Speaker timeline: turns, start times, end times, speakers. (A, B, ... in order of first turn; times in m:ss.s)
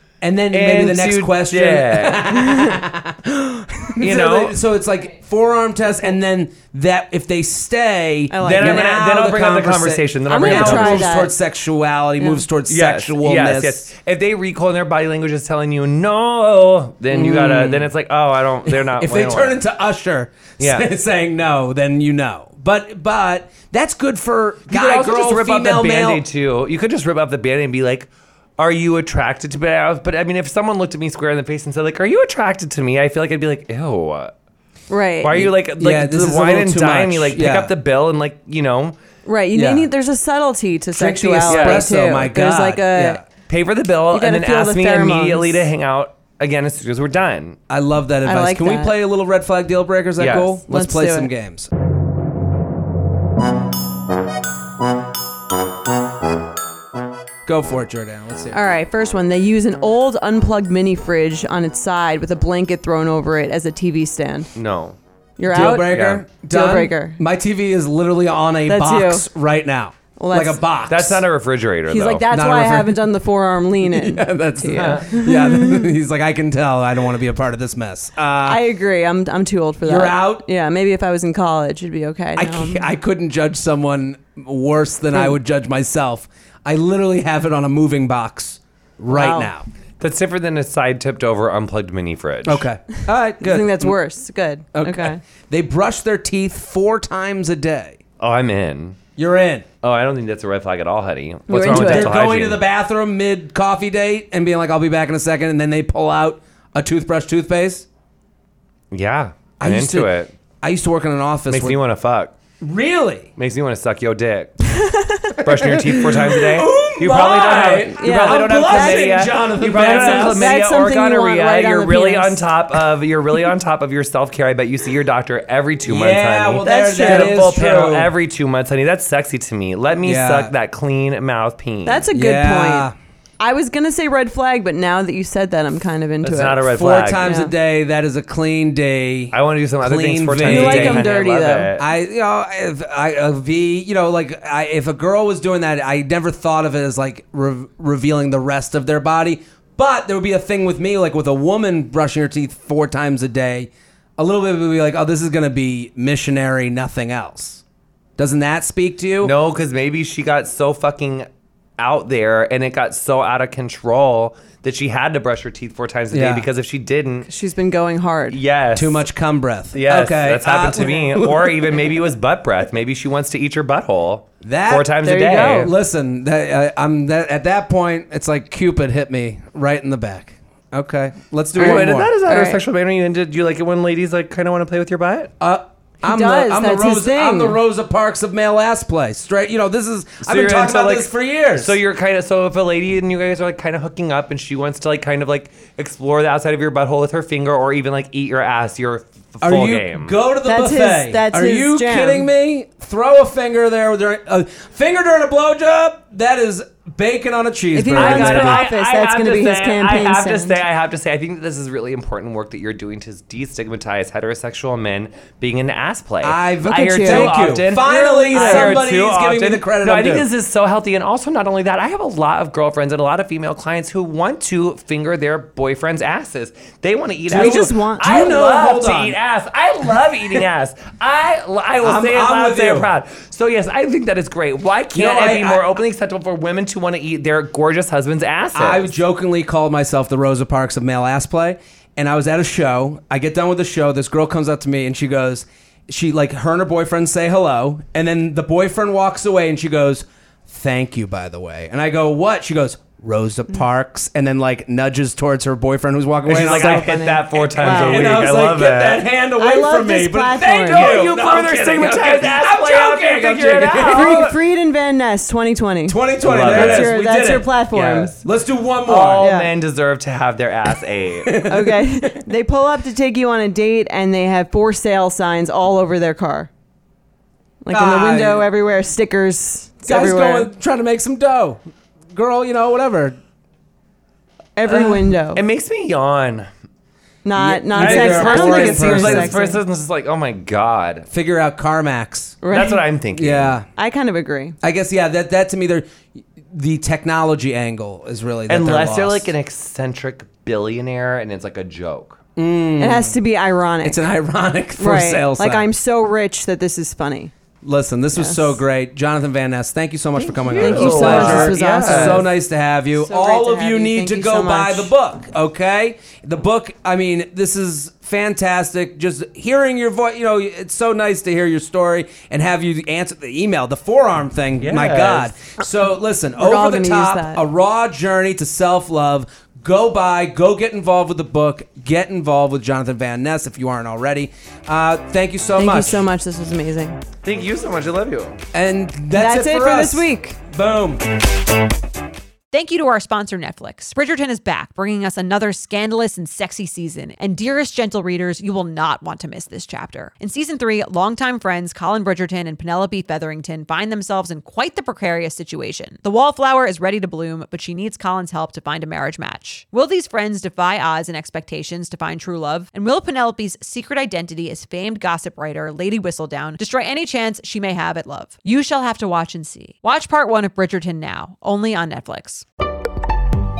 0:00.2-0:13.9 A
0:00.5-0:02.6 B
0:04.0-0:04.6 B
0:08.3-0:09.0 C
0:08.4-0:11.2 B
0:10.3-0:11.3 C
0:12.7-0:19.6 B
0:17.1-0:17.9 A
0:18.6-0:26.2 A
0:20.6-0:20.9 B
0:24.7-0:34.3 B
0:34.9-0:35.5 C
0:35.2-0:39.0 B
0:35.8-0:37.7 A
0:39.2-0:43.2 C
0:39.5-0:39.9 A
0:40.9-0:43.2 A
0:41.4-0:41.9 B
0:43.5-0:47.6 B
0:44.1-0:45.6 C
0:47.7-0:51.7 A
0:48.2-0:48.9 C
0:50.2-0:50.6 B
0:50.7-0:51.3 C
0:57.4-0:58.7 A
0:58.5-1:04.5 C
1:04.6-1:05.0 B
1:05.4-1:07.2 C
1:05.4-1:11.3 A
1:05.7-1:06.2 B
1:08.7-1:09.2 C
1:10.2-1:10.6 C
1:10.9-1:12.3 B
1:11.9-1:16.0 C
1:12.3-1:13.1 A
1:13.8-1:18.6 A
1:14.7-1:15.1 B
1:18.4-1:22.9 C
1:19.8-1:20.5 A
1:22.4-1:29.7 A
1:29.1-1:29.5 C
1:30.0-1:32.7 B
1:32.4-1:34.0 A
1:33.4-1:35.2 C
1:34.7-1:38.0 A
1:38.2-1:39.0 B
1:39.2-1:39.6 A
1:39.8-1:42.6 B
1:41.5-1:42.1 C
1:41.6-1:47.9 A
1:48.9-1:50.3 B
1:49.6-1:51.8 A
1:51.5-1:52.3 B
1:52.6-1:53.3 A
1:53.4-1:54.6 B
1:54.7-1:55.4 C
1:55.4-2:12.1 B
1:55.4-2:00.6 A
1:58.0-2:02.5 C
2:05.9-2:08.1 A
2:06.6-2:07.5 C
2:10.0-2:10.5 A
2:11.8-2:12.9 C
2:12.1-2:13.0 A
2:13.4-2:17.5 C
2:16.2-2:17.4 B
2:16.6-2:21.1 A
2:19.3-2:21.9 B
2:20.4-2:21.7 C
2:21.8-2:37.6 A
2:38.2-2:39.4 A
2:39.2-2:41.3 B
2:41.8-2:47.3 B
2:46.1-2:46.5 A
2:47.3-2:48.4 C
2:48.3-2:49.1 B
2:48.7-2:52.0 A
2:49.7-2:55.7 B
2:54.4-3:02.1 A
2:55.0-2:55.7 C
3:01.6-3:05.3 B
3:01.6-3:02.6 C
3:05.4-3:11.8 A
3:06.0-3:07.6 C
3:10.2-3:20.2 B
3:19.4-3:28.6 A
3:20.4-3:22.3 C
3:27.7-3:30.6 C
3:27.9-3:58.9 B
3:36.2-3:40.3 A
3:36.6-3:38.8 C
3:47.3-3:49.2 A
3:47.3-3:48.1 C
3:51.8-3:52.9 A
3:54.9-3:55.6 A
3:58.5-4:17.0 A
4:16.3-4:19.1 B
4:16.3-4:18.4 C
4:17.6-4:24.4 A
4:19.4-4:21.0 C
4:20.4-4:24.3 B
4:23.9-4:28.1 C
4:25.9-4:27.5 A
4:26.2-4:26.9 B
4:27.7-4:28.2 B
4:28.2-4:29.3 A
4:28.8-4:31.3 B
4:29.2-4:29.5 C
4:31.2-4:32.3 A
4:31.4-4:36.5 C
4:37.6-4:40.5 C
4:37.7-4:38.5 A
4:39.9-4:41.6 A
4:42.1-4:43.2 A
4:44.6-4:45.4 C
4:44.6-4:46.5 B
4:47.2-4:49.6 C
4:47.4-4:49.4 A
4:47.7-4:51.1 B
4:51.1-4:52.4 A
4:52.4-4:52.8 C
4:52.5-4:53.6 B
4:53.1-4:53.7 A
4:53.8-4:54.6 C
4:54.6-4:55.9 A
4:56.5-4:59.3 A
4:58.5-5:02.2 B
5:02.4-5:03.2 A
5:02.8-5:04.1 C
5:03.8-5:05.7 A
5:04.8-5:07.3 C
5:07.6-5:36.1 A
5:08.1-5:08.5 C
5:10.2-5:12.3 B
5:10.5-5:12.3 C
5:13.0-5:14.9 C
5:24.6-5:25.3 B
5:26.4-5:27.4 C
5:35.6-5:37.0 C
5:37.2-5:38.4 B
5:38.5-5:41.0 A
5:39.1-5:40.4 C
5:42.5-6:12.4 D